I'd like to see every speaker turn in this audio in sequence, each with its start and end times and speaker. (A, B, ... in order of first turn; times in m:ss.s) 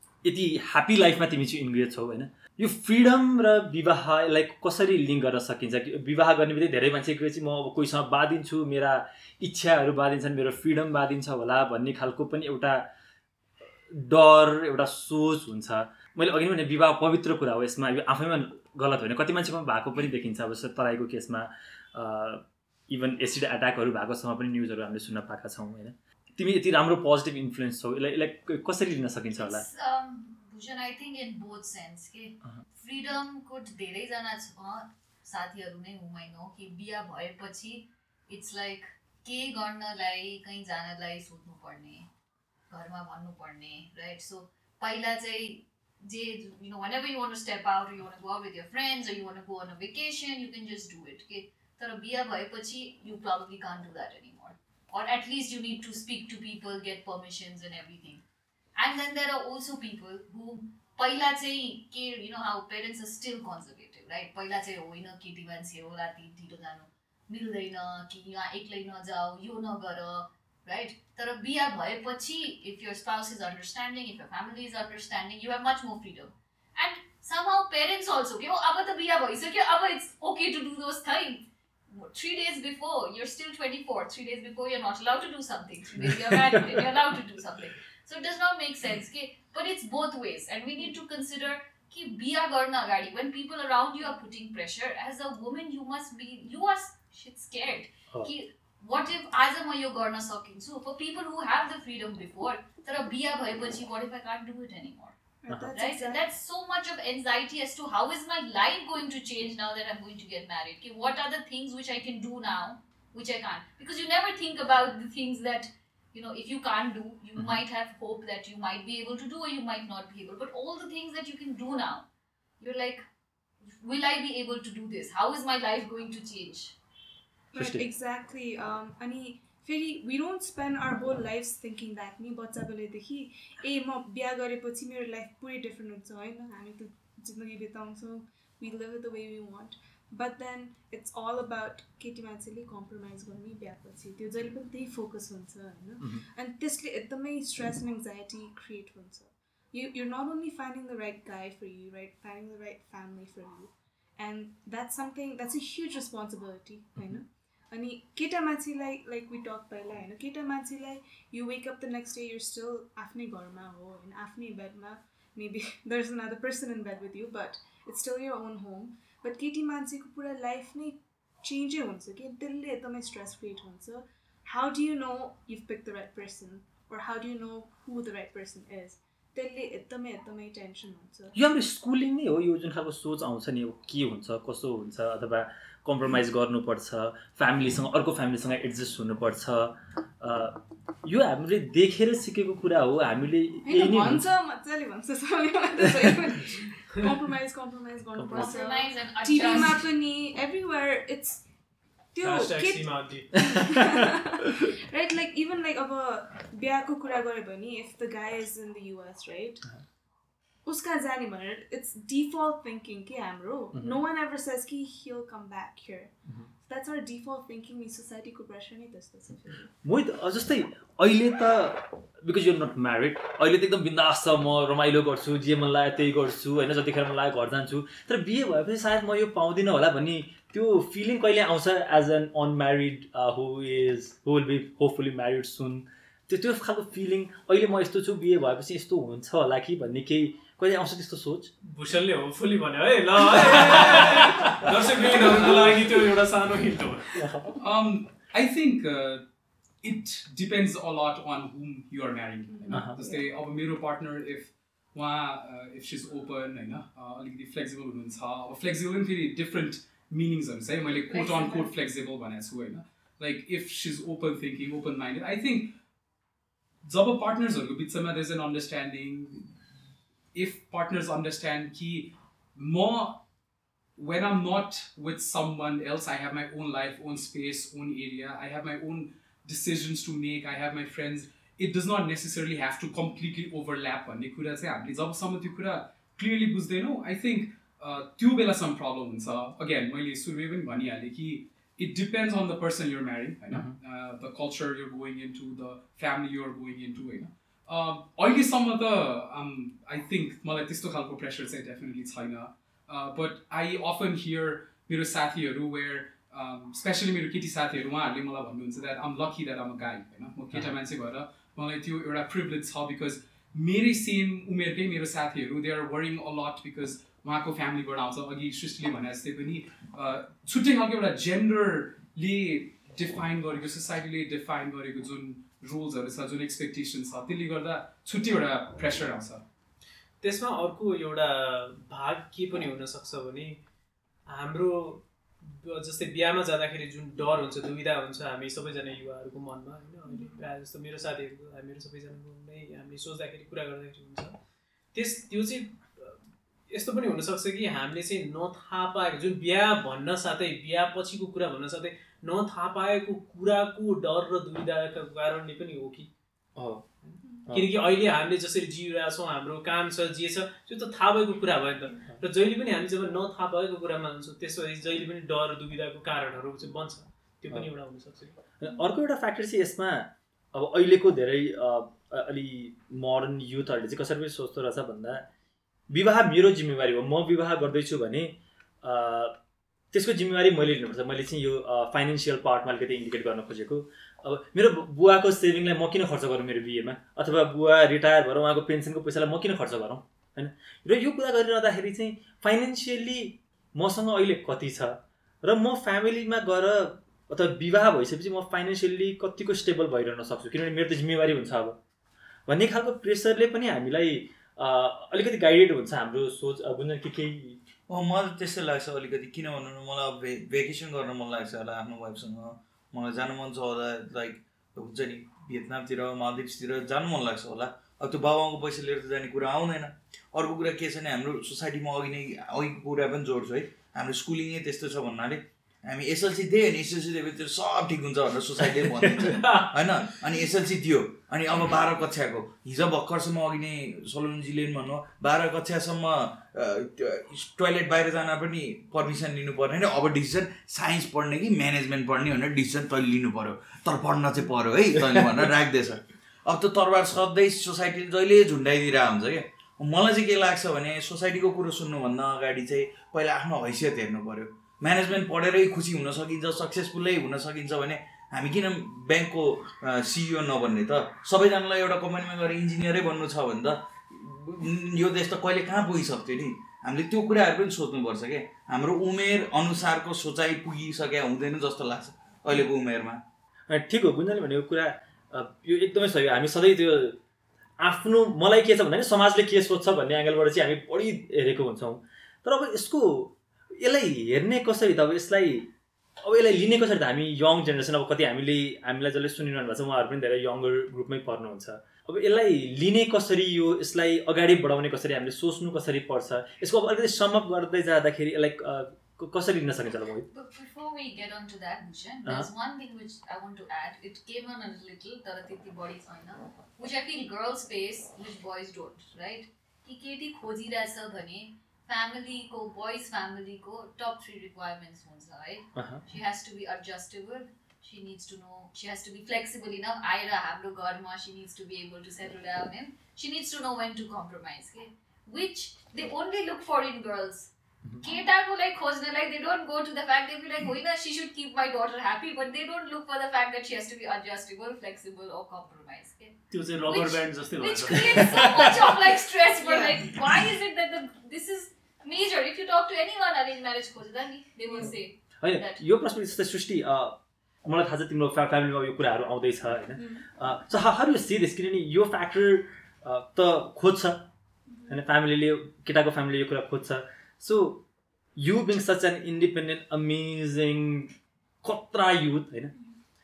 0:00.2-0:12.9 A
0:13.9-0:29.6 A
0:29.4-0:42.1 B
0:42.7-0:58.2 B
0:58.8-1:45.2 B
1:26.0-1:26.8 A
1:45.4-1:46.3 C
1:45.7-2:02.0 B
2:02.6-2:03.0 B
2:03.7-2:06.8 B
2:07.5-3:01.3 C
2:07.5-2:07.8 A
2:26.0-2:26.2 A
3:01.3-3:14.2 A
3:13.6-3:21.4 C
3:18.1-3:18.5 A
3:18.3-3:19.8 B
3:22.1-3:29.6 C
3:22.2-3:23.3 D
3:30.6-3:36.1 C
3:33.7-3:34.0 A
3:36.6-3:39.7 C
3:39.8-4:01.5 A
4:01.6-4:07.2 D
4:07.2-4:07.5 A
4:07.6-4:09.2 E
4:09.8-4:25.7 E
4:12.5-4:13.2 C
4:12.7-4:13.0 A
4:21.0-4:21.7 C
4:26.8-4:29.5 E
4:30.3-4:33.2 E
4:34.0-5:29.4 E
5:30.2-5:33.6 D
5:34.3-5:44.4 D
5:40.1-5:40.4 C
5:44.9-5:56.1 D
5:56.6-5:56.9 A
5:57.5-6:08.4 D
6:08.6-6:15.3 A
6:15.9-6:19.4 A
6:19.9-6:41.8 A
6:42.5-6:47.6 A
6:47.9-7:53.2 F
7:09.4-7:09.7 D
7:53.7-7:57.2 A
7:57.8-8:05.7 A
8:06.2-8:20.3 A
8:20.3-9:05.8 B
8:35.8-8:36.0 A
8:56.5-8:58.7 D
8:58.1-8:58.7 A
8:59.6-9:00.1 C
9:04.8-9:14.3 A
9:10.0-9:10.2 C
9:14.7-9:15.0 C
9:14.9-9:17.8 A
9:18.4-9:22.7 A